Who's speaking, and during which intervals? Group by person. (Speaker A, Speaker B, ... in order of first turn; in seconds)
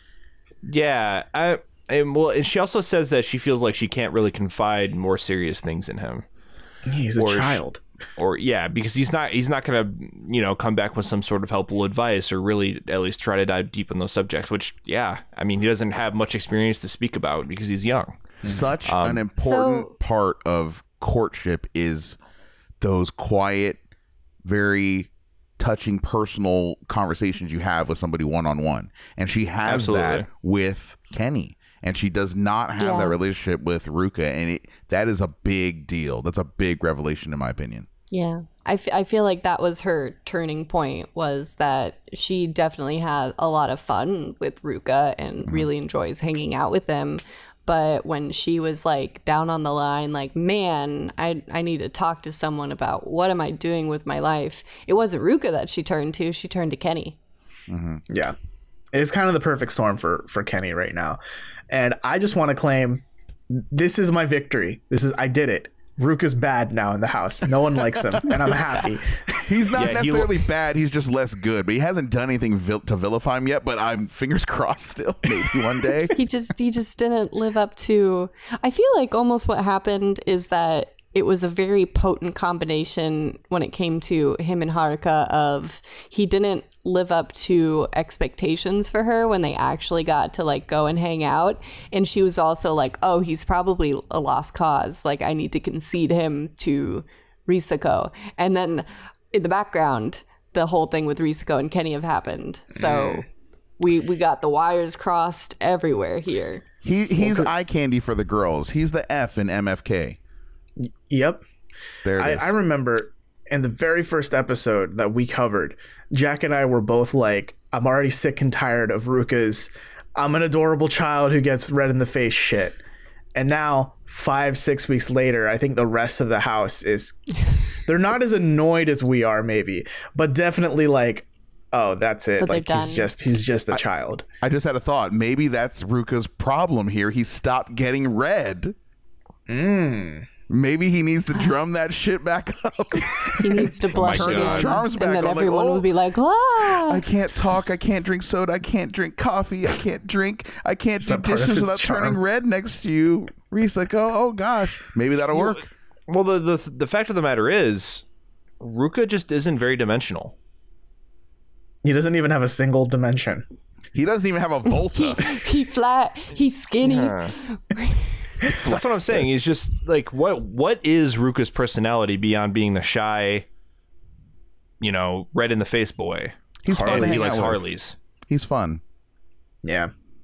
Speaker A: 0.6-6.2, 7.2-7.6, 8.2-18.1, 18.8-19.2, 29.6-30.3, 69.7-70.5, 144.0-144.8, 155.3-158.0, 158.6-160.3, 166.8-167.3, 168.4-173.4, 174.8-177.9
Speaker B: 6.9-7.8, 18.4-18.7, 58.1-58.3, 58.9-69.5, 102.7-103.2, 107.2-107.5, 110.8-111.4, 112.2-122.8, 123.3-134.2, 139.5-140.3, 151.0-152.2, 161.8-163.4, 176.7-177.4, 179.6-179.9
Speaker C: 18.4-22.2, 22.8-23.8, 24.4-37.9, 57.7-58.0, 68.2-68.7, 69.5-76.2, 106.8-110.2, 112.0-112.5, 134.4-138.7, 140.5-145.9, 146.6-155.7, 163.9-165.4, 168.5-169.3, 176.6-177.6, 178.3-178.8
Speaker D: 19.4-19.9, 32.8-33.1, 38.1-57.2, 76.1-103.2, 103.8-106.6, 132.4-133.1, 143.4-147.0, 164.9-168.4